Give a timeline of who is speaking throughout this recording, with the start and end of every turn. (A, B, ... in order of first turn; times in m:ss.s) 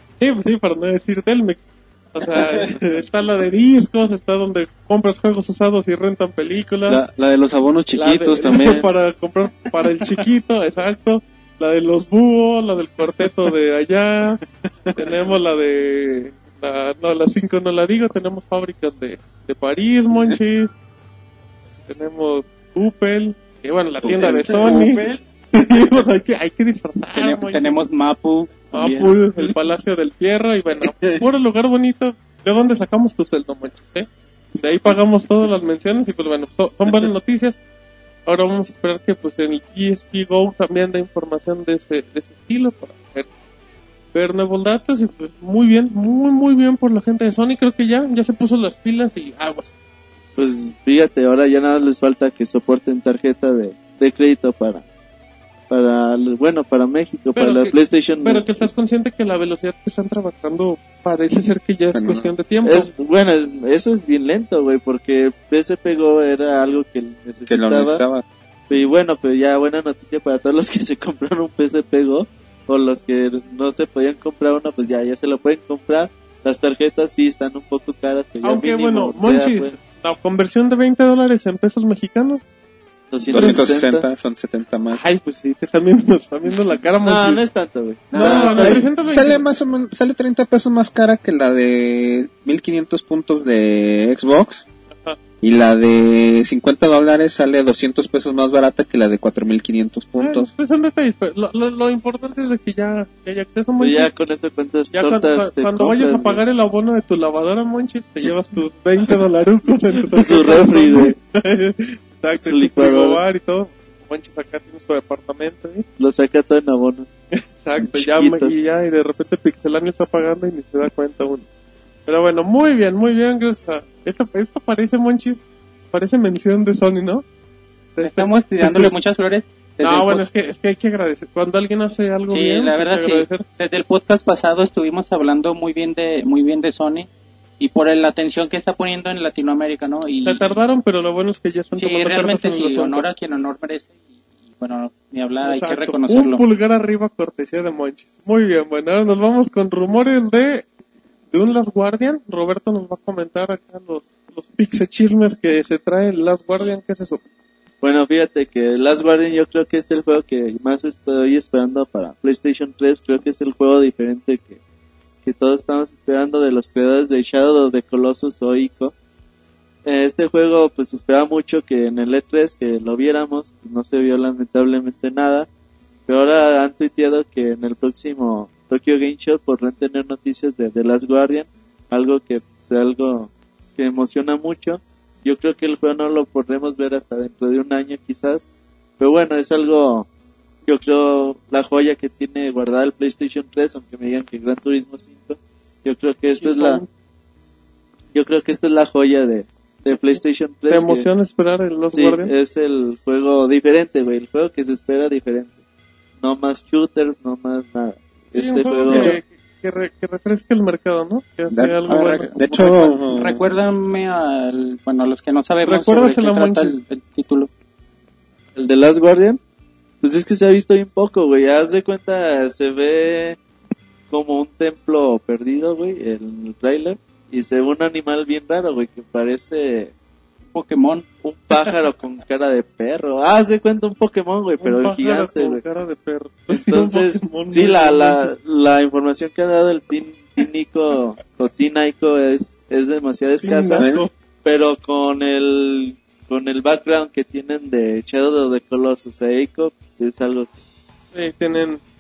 0:00.2-0:07.0 A
0:06.9-0:08.9 B
0:07.9-0:14.4 A
0:14.9-0:15.1 B
0:15.0-0:20.7 A
0:21.9-0:27.8 A
0:24.0-0:24.9 C
0:24.5-0:24.9 B
0:27.1-0:29.1 D
0:28.7-0:37.6 A
0:38.3-0:43.3 A
0:44.1-0:49.7 A
0:50.4-0:54.8 E
0:55.7-0:58.7 E
0:57.4-1:02.9 A
1:01.9-1:02.3 C
1:02.6-1:08.0 E
1:07.5-1:08.2 C
1:08.7-1:19.7 E
1:18.4-1:22.4 A
1:23.1-1:24.0 E
1:23.3-1:25.0 C
1:23.3-1:23.6 A
1:24.9-1:27.4 A
1:27.0-1:28.9 E
1:28.1-1:29.4 A
1:28.1-1:34.6 C
1:35.4-1:40.5 C
1:40.2-1:44.1 A
1:43.8-1:46.4 E
1:44.9-1:55.8 A
1:50.1-1:51.2 E
1:52.4-1:53.2 E
1:56.0-1:57.1 E
1:57.3-2:01.4 A
1:57.8-1:58.6 E
2:02.0-2:07.2 A
2:08.0-2:08.9 A
2:08.0-2:10.2 D
2:09.8-2:13.4 A
2:12.3-2:17.1 D
2:17.6-2:20.6 D
2:20.2-2:23.0 A
2:21.7-2:23.9 D
2:24.6-2:26.4 D
2:25.4-2:30.7 A
2:31.3-2:37.2 A
2:37.8-2:44.6 E
2:45.2-2:48.9 E
2:49.8-2:55.5 E
2:56.1-3:08.4 E
3:09.0-3:10.1 E
3:10.6-3:16.8 E
3:16.4-3:16.9 A
3:18.1-3:21.1 E
3:19.9-3:22.3 A
3:21.9-3:25.5 E
3:26.2-3:29.2 E
3:28.3-3:32.3 A
3:28.9-3:29.2 C
3:31.5-3:33.5 C
3:31.9-3:37.5 D
3:35.6-3:36.8 A
3:38.6-3:39.4 E
3:40.0-3:43.4 E
3:44.1-3:49.9 E
3:50.5-3:51.0 D
3:51.2-3:55.6 E
3:54.6-3:58.3 A
3:56.5-4:03.9 E
4:03.4-4:04.1 A
4:03.7-4:04.0 C
4:04.4-4:10.5 E
4:11.1-4:11.8 A